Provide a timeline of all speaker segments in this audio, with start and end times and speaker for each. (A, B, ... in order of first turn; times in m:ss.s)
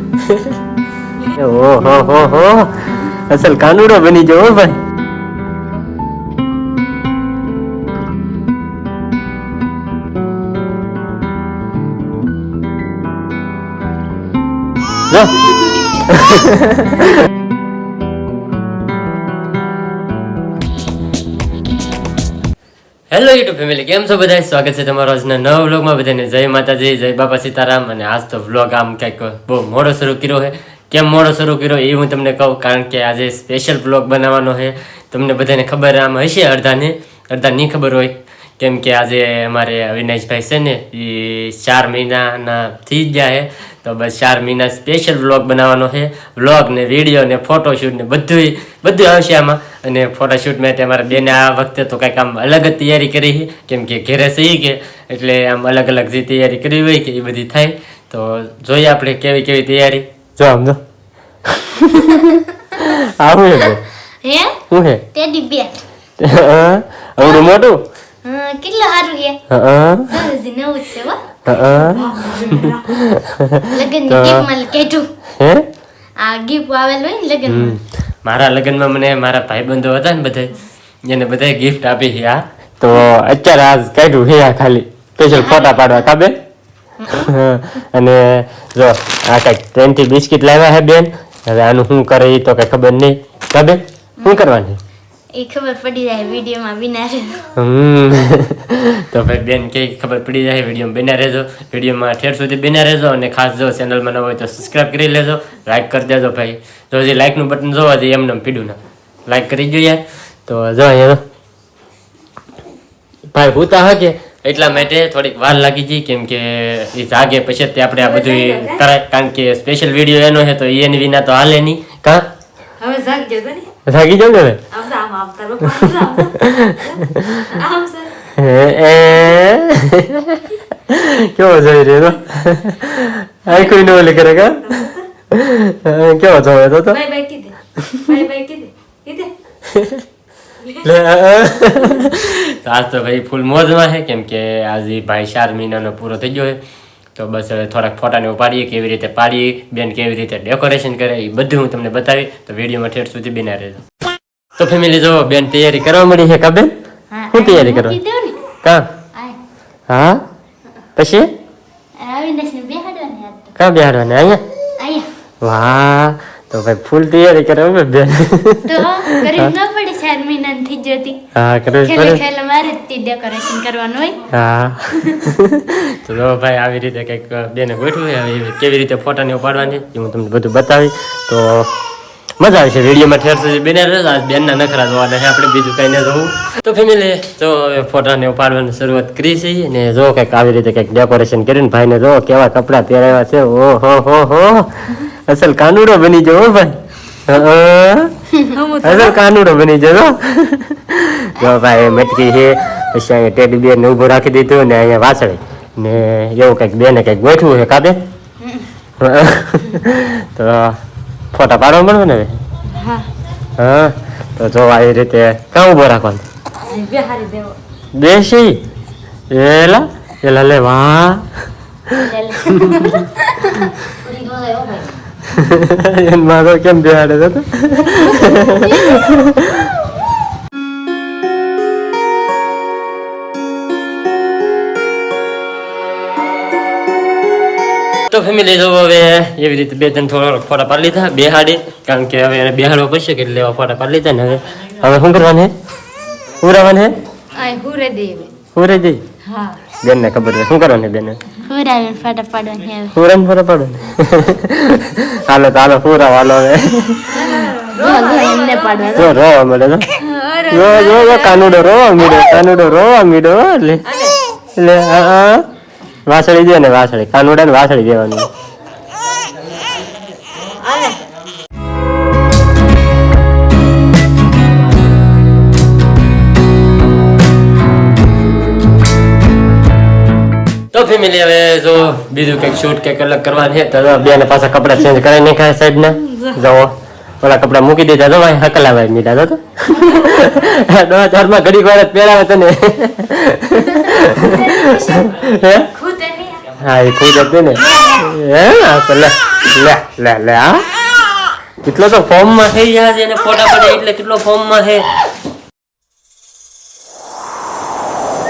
0:00.2-0:00.5 A
0:01.3-0:04.8 A
0:15.1-0:17.1 A
0:23.1-1:00.8 A
1:01.5-1:03.8 A
1:02.0-1:02.4 B
1:04.2-1:04.6 B
1:04.7-1:05.0 A
1:05.1-1:05.8 B
1:06.2-1:07.8 A
1:07.2-1:07.5 B
1:08.2-1:09.4 B
1:09.5-1:10.2 A
1:10.1-1:11.2 B
1:11.5-1:14.5 A
1:11.7-1:12.8 C
1:13.7-1:15.1 B
1:15.4-1:15.7 A
1:16.2-1:17.8 B
1:17.5-1:26.4 A
1:25.3-1:26.1 B
1:27.0-1:27.3 B
1:27.2-1:34.8 A
1:34.2-1:34.5 B
1:35.3-1:37.5 B
1:37.6-1:51.2 A
1:53.3-2:02.3 A
1:58.0-1:58.8 C
2:02.8-2:03.7 C
2:03.9-2:04.6 A
2:04.7-2:08.2 C
2:06.4-2:07.4 A
2:08.3-2:14.6 A
2:13.5-2:15.1 C
2:15.3-2:17.0 A
2:16.9-2:19.3 C
2:19.7-2:20.0 A
2:20.8-2:26.6 A
2:27.2-2:33.8 A
2:34.6-2:36.7 A
2:37.1-2:38.4 B
2:37.3-2:38.0 A
2:39.9-2:40.2 A
2:41.0-2:41.3 A
2:42.0-2:43.5 B
2:43.6-2:44.4 A
2:44.8-2:45.1 B
2:45.4-2:49.5 A
2:48.7-2:51.2 B
2:51.3-2:52.2 A
2:51.8-2:54.2 B
2:54.3-3:01.7 A
3:02.4-3:18.2 A
3:18.5-3:19.2 C
3:18.8-3:28.0 A
3:29.0-3:30.8 A
3:31.3-3:32.4 A
3:32.8-3:33.1 C
3:33.6-3:36.2 A
3:36.6-3:37.6 C
3:38.0-3:38.6 A
3:39.3-3:41.3 A
3:41.9-3:42.9 A
3:42.0-3:44.8 B
3:45.3-3:49.7 A
3:47.9-3:49.1 B
3:58.1-4:05.5 A
4:06.4-4:07.0 A
4:07.4-4:08.3 C
4:08.5-4:09.0 A
4:09.3-4:09.6 C
4:09.8-4:11.2 A
4:11.5-4:13.0 B
4:12.9-4:17.2 A
4:17.1-4:19.0 C
4:17.8-4:19.1 B
4:18.9-4:19.9 A
4:20.0-4:21.7 C
4:20.5-4:23.8 A
4:23.9-4:24.2 C
4:24.6-4:25.5 A
4:26.1-4:28.3 A
4:30.6-4:31.0 C
4:40.7-4:55.7 A
4:54.0-4:55.1 B
4:55.8-4:56.4 C
4:56.5-5:00.6 A
5:01.6-5:04.9 A